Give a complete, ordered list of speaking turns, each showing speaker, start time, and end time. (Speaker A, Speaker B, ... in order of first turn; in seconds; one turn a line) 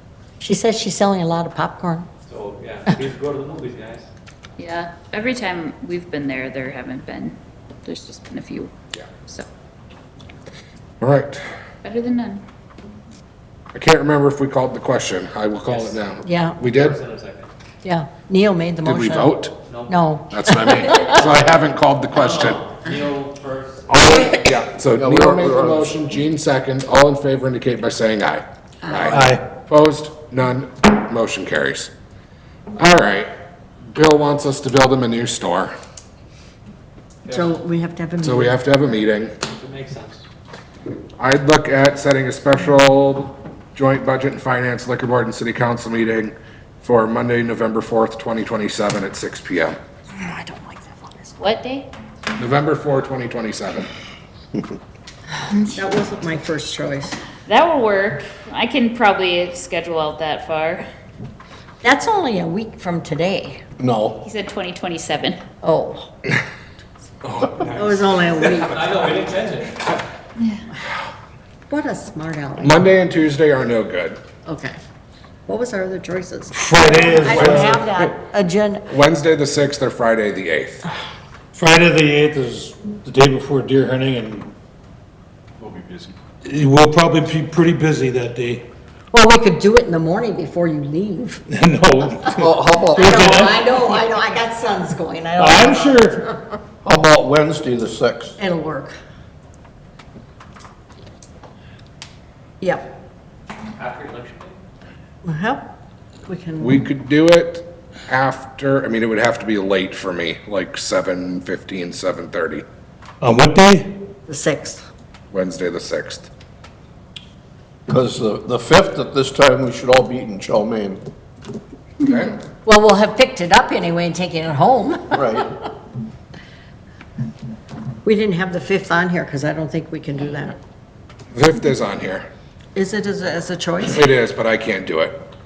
Speaker A: 0.4-2.1
Speaker B: 2.3-4.1
Speaker C: 4.6-8.7
Speaker D: 11.0-11.4
Speaker C: 11.8-12.4
Speaker D: 13.7-17.0
Speaker B: 15.7-16.0
Speaker A: 16.2-16.6
Speaker B: 16.7-17.5
Speaker A: 17.8-19.4
Speaker D: 18.8-19.6
Speaker B: 19.7-20.1
Speaker A: 19.9-21.2
Speaker D: 20.3-22.6
Speaker B: 20.9-21.6
Speaker B: 22.1-24.6
Speaker D: 23.9-31.9
Speaker E: 24.9-25.9
Speaker A: 28.8-29.1
Speaker F: 29.1-29.4
Speaker D: 32.8-33.3
Speaker D: 33.9-35.7
Speaker B: 37.2-37.6
Speaker A: 37.3-38.6
Speaker D: 38.2-39.4
Speaker B: 39.5-40.2
Speaker D: 41.2-49.8
Speaker A: 50.1-51.3
Speaker C: 51.4-51.9
Speaker D: 52.4-53.9
Speaker A: 55.6-57.2
Speaker C: 57.5-60.9
Speaker A: 61.8-63.6
Speaker E: 63.8-64.2
Speaker C: 64.2-65.4
Speaker A: 65.6-66.1
Speaker D: 67.3-67.7
Speaker A: 67.7-68.8
Speaker B: 68.3-69.9
Speaker A: 71.7-72.8
Speaker D: 72.6-74.2
Speaker A: 74.5-74.8
Speaker A: 75.5-78.9
Speaker F: 76.5-77.8
Speaker D: 77.2-78.1
Speaker D: 78.9-80.8
Speaker F: 81.5-84.5
Speaker F: 86.4-88.6
Speaker A: 89.1-91.4
Speaker F: 91.5-93.7
Speaker E: 92.4-93.5
Speaker A: 93.0-96.4
Speaker F: 95.4-96.3
Speaker E: 96.8-98.3
Speaker A: 98.4-98.9
Speaker A: 102.6-102.8
Speaker B: 103.8-104.6
Speaker A: 105.2-105.6
Speaker A: 106.2-106.8
Speaker D: 106.6-112.6
Speaker F: 113.2-114.0
Speaker A: 114.3-114.8
Speaker D: 115.3-116.3
Speaker E: 117.9-121.0
Speaker D: 122.0-122.4
Speaker A: 122.6-125.4
Speaker E: 125.1-125.5
Speaker A: 128.0-130.6
Speaker D: 131.3-132.3
Speaker A: 132.7-134.0
Speaker D: 133.9-135.2